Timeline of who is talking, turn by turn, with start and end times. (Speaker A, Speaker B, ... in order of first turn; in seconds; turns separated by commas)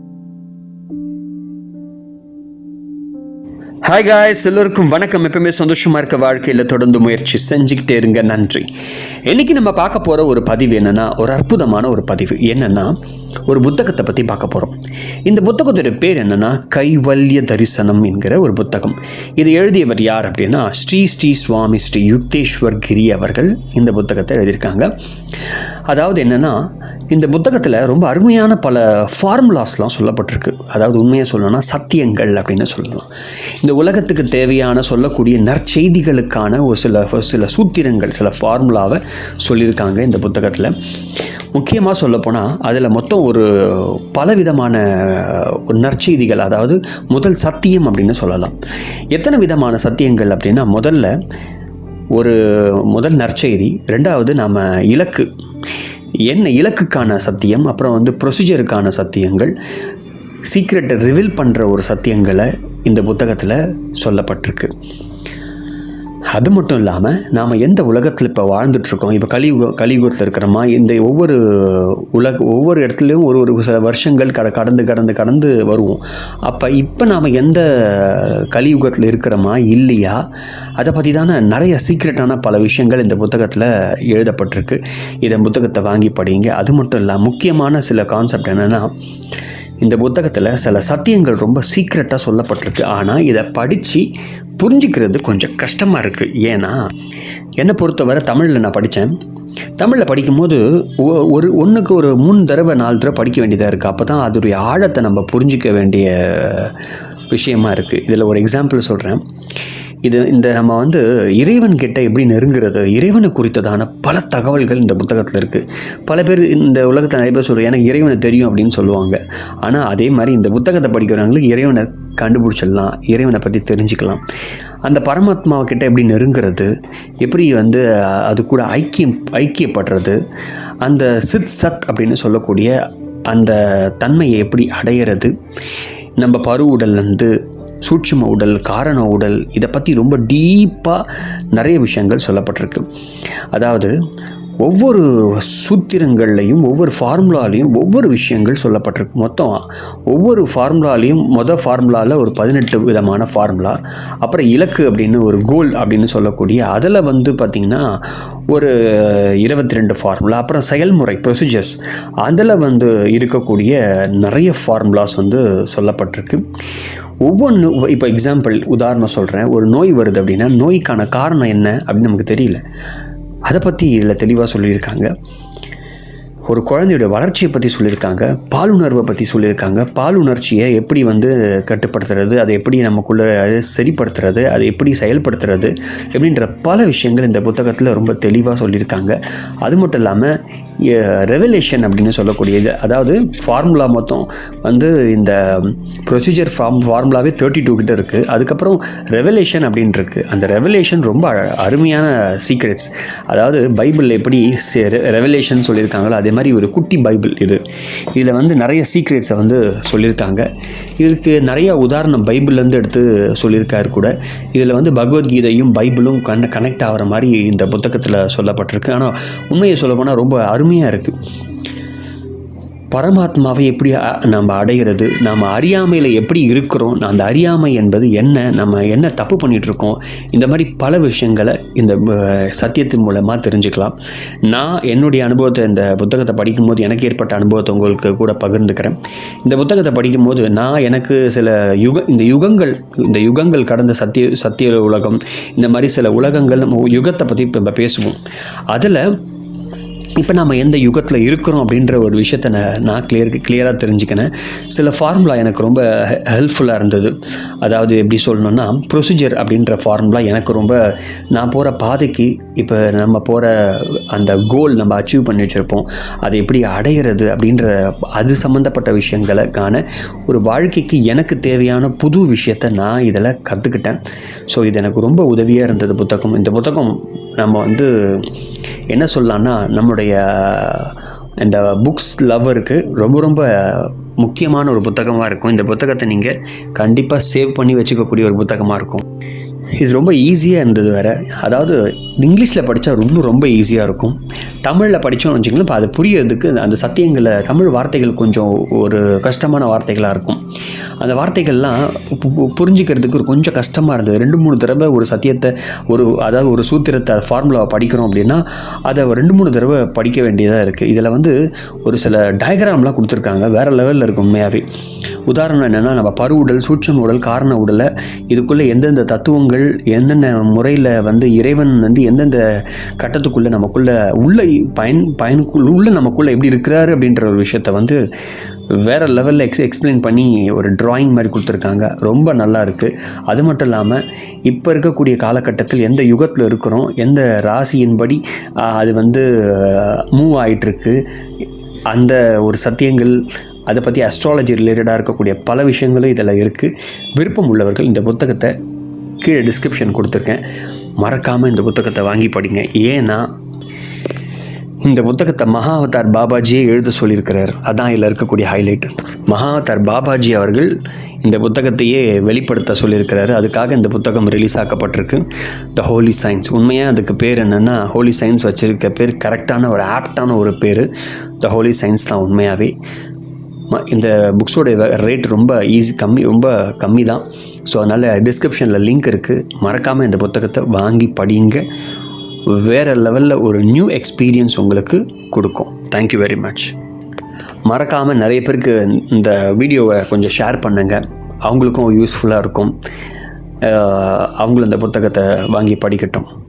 Speaker A: 3.8-8.7, Speaker A: 9.2-12.9, Speaker A: 13.5-24.9, Speaker A: 25.9-33.1, Speaker A: 33.6-40.7, Speaker A: 41.5-48.6, Speaker A: 49.1-51.1, Speaker A: 52.1-55.3, Speaker A: 56.3-59.5, Speaker A: 60.4-64.7, Speaker A: 66.3-80.2, Speaker A: 80.8-88.9, Speaker A: 89.8-96.8, Speaker A: 97.6-99.2, Speaker A: 99.8-106.8, Speaker A: 107.3-109.2, Speaker A: 110.0-124.2, Speaker A: 124.8-126.7, Speaker A: 127.2-130.2, Speaker A: 130.8-132.7, Speaker A: 133.3-135.3, Speaker A: 136.2-137.3, Speaker A: 137.8-142.9, Speaker A: 143.5-143.9, Speaker A: 144.6-157.9, Speaker A: 158.5-166.4, Speaker A: 167.2-172.6, Speaker A: 173.4-175.1, Speaker A: 176.5-207.6, Speaker A: 208.1-210.5, Speaker A: 211.0-221.2, Speaker A: 222.9-248.2, Speaker A: 248.7-249.1, Speaker A: 250.1-260.8, Speaker A: 261.3-278.3, Speaker A: 278.9-289.0, Speaker A: 289.8-300.4, Speaker A: 301.0-314.6, Speaker A: 315.2-322.4, Speaker A: 323.0-328.0, Speaker A: 328.7-341.0, Speaker A: 341.9-348.5, Speaker A: 349.2-350.4, Speaker A: 351.0-353.3, Speaker A: 354.8-370.9, Speaker A: 371.4-372.7, Speaker A: 373.7-381.6, Speaker A: 382.5-386.7, Speaker A: 387.6-392.8, Speaker A: 393.6-396.3